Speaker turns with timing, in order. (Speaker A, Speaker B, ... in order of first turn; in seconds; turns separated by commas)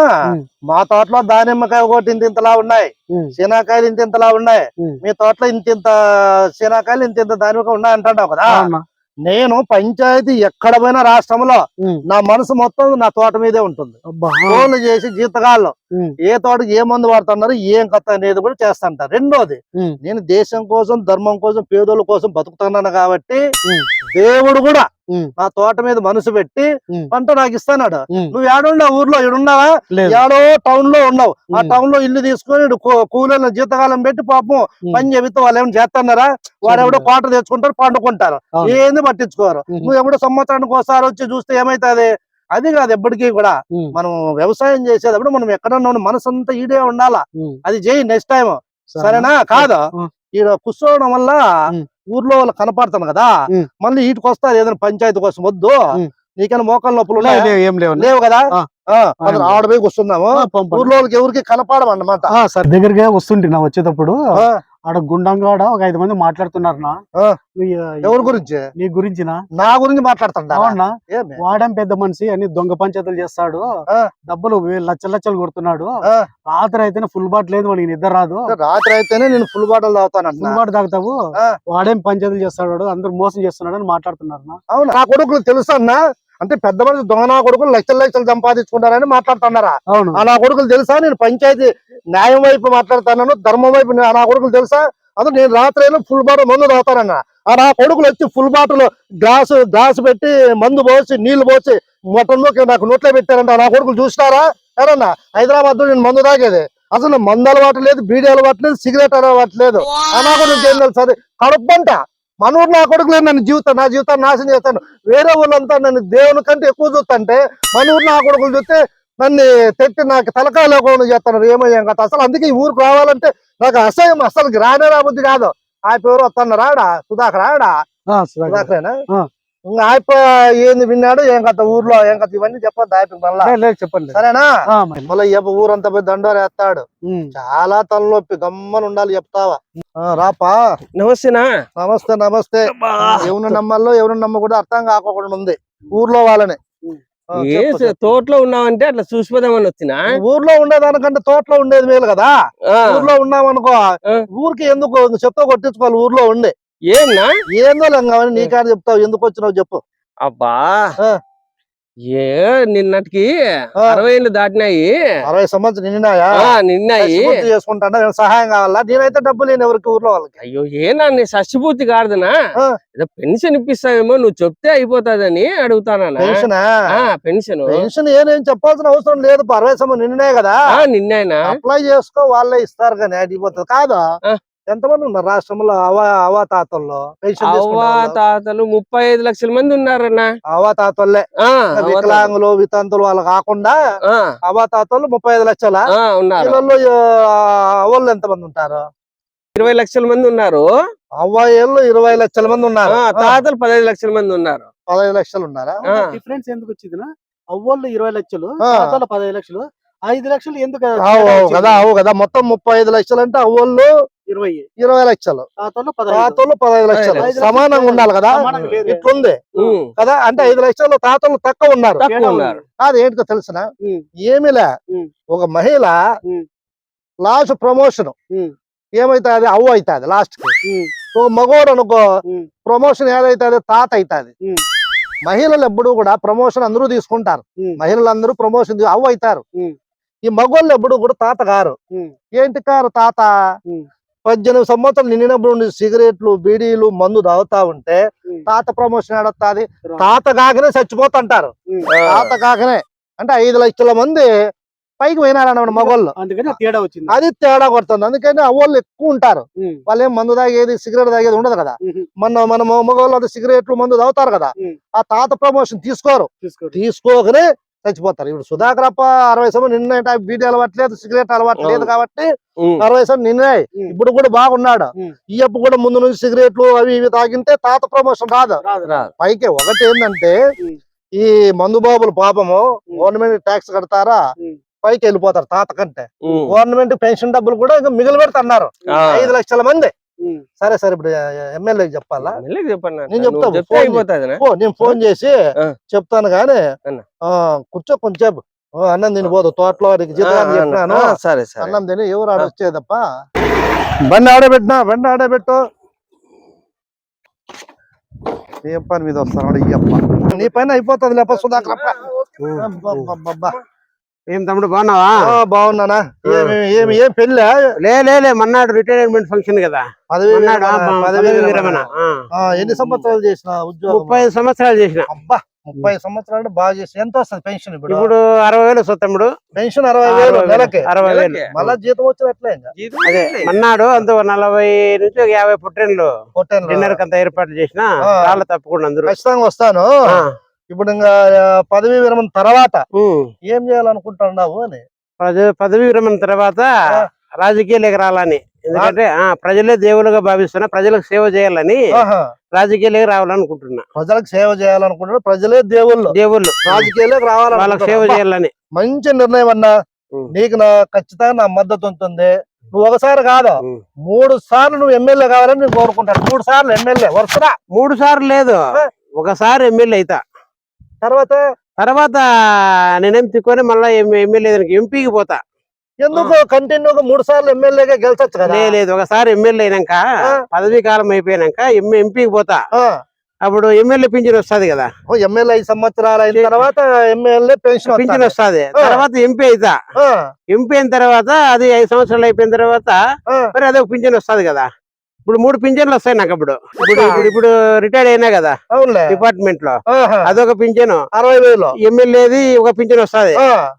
Speaker A: 0.7-6.0, Speaker A: 6.5-8.7, Speaker B: 8.5-8.8, Speaker A: 9.2-14.0, Speaker B: 14.1-14.7, Speaker A: 14.5-23.4, Speaker A: 24.1-51.4, Speaker B: 29.9-30.2, Speaker B: 36.7-37.0, Speaker B: 48.9-50.1, Speaker A: 52.1-53.3, Speaker A: 53.8-55.8, Speaker A: 56.4-62.3, Speaker B: 57.1-58.7, Speaker B: 59.2-59.6, Speaker B: 60.3-60.9, Speaker B: 62.3-64.2, Speaker B: 64.9-67.0, Speaker B: 67.6-69.4, Speaker A: 68.0-68.6, Speaker A: 69.5-71.4, Speaker B: 70.5-73.7, Speaker B: 74.3-75.9, Speaker B: 76.5-78.5, Speaker A: 78.5-80.6, Speaker B: 80.4-81.2, Speaker B: 81.7-84.6, Speaker A: 84.7-127.7, Speaker B: 89.9-90.2, Speaker B: 128.1-129.3, Speaker A: 128.5-128.9, Speaker A: 129.7-133.5, Speaker B: 133.4-135.1, Speaker A: 134.1-134.5, Speaker A: 135.1-140.6, Speaker B: 137.1-137.3, Speaker C: 141.0-141.5, Speaker A: 141.8-146.6, Speaker C: 142.9-143.3, Speaker B: 143.0-143.3, Speaker A: 147.3-147.9, Speaker C: 147.3-150.0, Speaker A: 150.1-152.3, Speaker C: 152.7-153.1, Speaker A: 152.8-153.8, Speaker A: 154.3-156.5, Speaker C: 156.9-157.3, Speaker A: 157.6-159.8, Speaker C: 160.2-160.9, Speaker C: 162.1-164.9, Speaker A: 165.2-170.3, Speaker C: 166.4-167.3, Speaker C: 170.4-172.3, Speaker C: 173.0-177.8, Speaker A: 176.2-176.7, Speaker A: 177.7-180.6, Speaker C: 180.8-181.6, Speaker A: 181.4-184.0, Speaker A: 184.7-188.2, Speaker C: 187.5-190.3, Speaker A: 190.5-193.8, Speaker C: 191.4-192.3, Speaker C: 194.1-194.3, Speaker A: 194.4-195.8, Speaker C: 195.9-196.6, Speaker A: 196.4-198.8, Speaker C: 199.5-200.7, Speaker A: 201.2-203.4, Speaker C: 202.9-204.7, Speaker A: 204.9-205.8, Speaker B: 205.8-211.8, Speaker C: 205.8-206.1, Speaker A: 208.6-208.9, Speaker A: 211.0-213.9, Speaker B: 214.3-214.7, Speaker A: 214.8-215.4, Speaker B: 215.6-216.4, Speaker A: 216.1-219.4, Speaker C: 216.9-217.4, Speaker B: 217.2-219.0, Speaker C: 219.6-219.9, Speaker A: 220.0-222.0, Speaker C: 222.0-222.6, Speaker B: 222.1-222.6, Speaker A: 222.8-223.7, Speaker A: 224.2-224.7, Speaker A: 225.3-225.9, Speaker A: 227.2-228.1, Speaker A: 228.9-230.5, Speaker A: 231.1-232.0, Speaker A: 232.7-234.3, Speaker A: 235.2-239.4, Speaker A: 240.2-241.8, Speaker A: 242.3-243.3, Speaker A: 244.2-251.5, Speaker C: 251.9-252.3, Speaker A: 252.1-254.3, Speaker A: 255.0-256.6, Speaker B: 255.7-257.1, Speaker A: 257.1-272.2, Speaker B: 266.4-266.8, Speaker C: 271.6-271.9, Speaker A: 272.8-278.6, Speaker B: 278.6-279.0, Speaker A: 279.2-280.4, Speaker A: 281.2-284.2, Speaker A: 284.8-289.9, Speaker C: 286.3-286.5, Speaker C: 288.9-289.3, Speaker A: 290.6-292.4, Speaker C: 292.2-294.9, Speaker A: 293.1-295.3, Speaker A: 295.9-296.6, Speaker A: 297.3-303.0, Speaker C: 300.2-301.8, Speaker A: 304.1-305.6, Speaker A: 308.6-312.0, Speaker D: 312.4-313.1, Speaker A: 312.6-313.6, Speaker D: 314.3-315.1, Speaker A: 315.2-317.6, Speaker D: 316.3-317.0, Speaker D: 317.8-322.1, Speaker A: 320.1-324.3, Speaker D: 322.7-323.1, Speaker D: 323.9-325.1, Speaker A: 325.1-328.1, Speaker D: 327.9-329.3, Speaker A: 329.6-330.9, Speaker D: 330.1-331.7, Speaker C: 331.0-331.5, Speaker A: 331.5-332.7, Speaker C: 332.8-333.5, Speaker D: 333.0-336.1, Speaker A: 336.3-337.0, Speaker D: 336.7-339.1, Speaker A: 338.0-338.4, Speaker A: 339.0-339.9, Speaker A: 340.7-342.8, Speaker D: 343.0-343.3, Speaker A: 343.5-344.8, Speaker D: 345.2-346.7, Speaker D: 347.4-351.8, Speaker A: 351.9-352.2, Speaker D: 352.6-353.8, Speaker A: 353.9-356.1, Speaker D: 356.1-356.9, Speaker A: 356.6-358.2, Speaker D: 357.5-358.5, Speaker A: 358.8-359.7, Speaker A: 360.3-367.5, Speaker D: 367.7-368.6, Speaker D: 369.2-370.2, Speaker A: 371.0-371.4, Speaker D: 371.8-372.2, Speaker D: 373.0-375.4, Speaker A: 376.0-378.7, Speaker D: 378.4-382.6, Speaker D: 383.4-384.9, Speaker A: 385.1-389.0, Speaker D: 387.9-389.8, Speaker A: 390.0-390.2, Speaker D: 390.5-392.9, Speaker D: 393.5-394.6, Speaker D: 395.2-398.6, Speaker A: 396.8-397.3, Speaker A: 398.7-399.2, Speaker D: 399.1-401.0, Speaker A: 399.9-400.3, Speaker A: 401.1-401.7, Speaker D: 401.8-403.4, Speaker A: 403.4-403.6